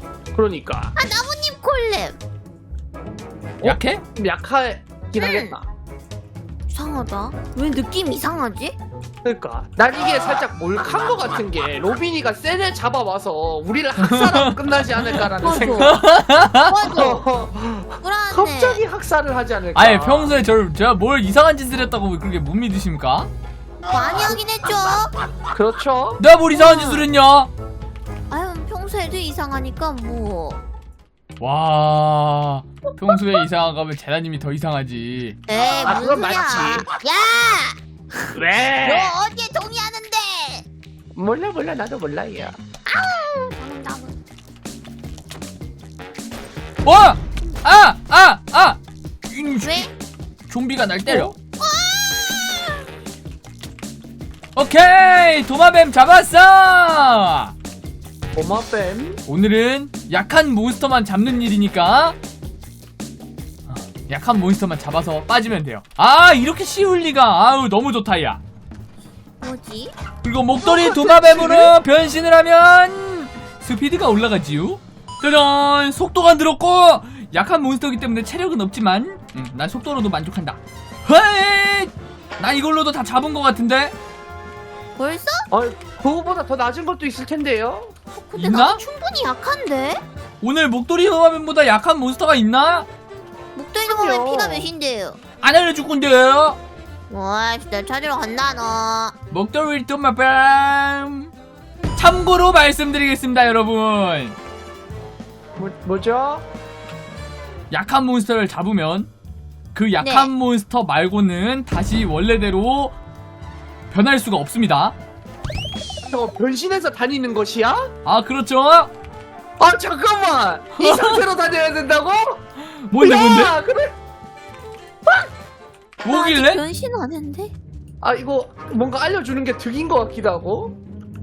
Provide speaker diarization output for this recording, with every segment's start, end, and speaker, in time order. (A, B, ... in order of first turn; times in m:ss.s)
0:00.3-0:00.9 A
0:01.0-0:02.2 B
0:03.6-0:05.7 A
0:03.6-0:04.0 C
0:05.2-0:05.6 B
0:06.7-0:08.8 B
0:09.2-0:16.0 A
0:14.0-0:14.6 C
0:15.1-0:16.9 C
0:15.4-0:16.0 B
0:16.7-0:17.2 B
0:16.9-0:20.4 A
0:18.0-0:18.8 B
0:19.8-0:23.3 C
0:23.9-0:25.2 B
0:25.5-0:26.2 A
0:26.2-0:27.5 C
0:26.6-0:27.0 B
0:28.3-0:30.6 B
0:31.4-0:35.4 C
0:35.5-0:38.3 B
0:35.6-0:36.9 A
0:38.4-0:39.2 A
0:38.8-0:40.6 B
0:41.2-0:42.6 A
0:42.9-0:44.2 B
0:46.8-0:49.9 C
0:49.6-0:49.9 B
0:50.5-0:51.4 C
0:51.6-0:52.8 B
0:54.6-0:57.5 C
0:58.3-0:59.2 A
0:59.3-1:02.2 C
1:03.7-1:08.4 C
1:09.4-1:09.9 B
1:10.2-1:24.0 C
1:10.6-1:11.8 A
1:25.0-1:25.5 B
1:25.5-1:27.9 A
1:28.1-1:30.0 B
1:28.4-1:28.8 C
1:30.4-1:32.9 C
1:33.6-1:35.2 B
1:33.8-1:34.7 A
1:35.4-1:36.6 C
1:37.1-1:39.1 B
1:39.3-1:41.3 C
1:42.0-1:44.4 C
1:45.6-1:46.5 A
1:47.7-1:49.1 C
1:49.7-1:53.0 C
1:50.0-1:50.3 B
1:53.9-1:55.0 C
1:56.0-1:57.9 A
1:58.0-1:58.9 C
1:59.6-2:02.4 A
2:00.8-2:01.2 C
2:02.9-2:03.5 C
2:03.0-2:03.9 A
2:06.0-2:06.6 C
2:06.1-2:07.5 B
2:08.0-2:10.8 A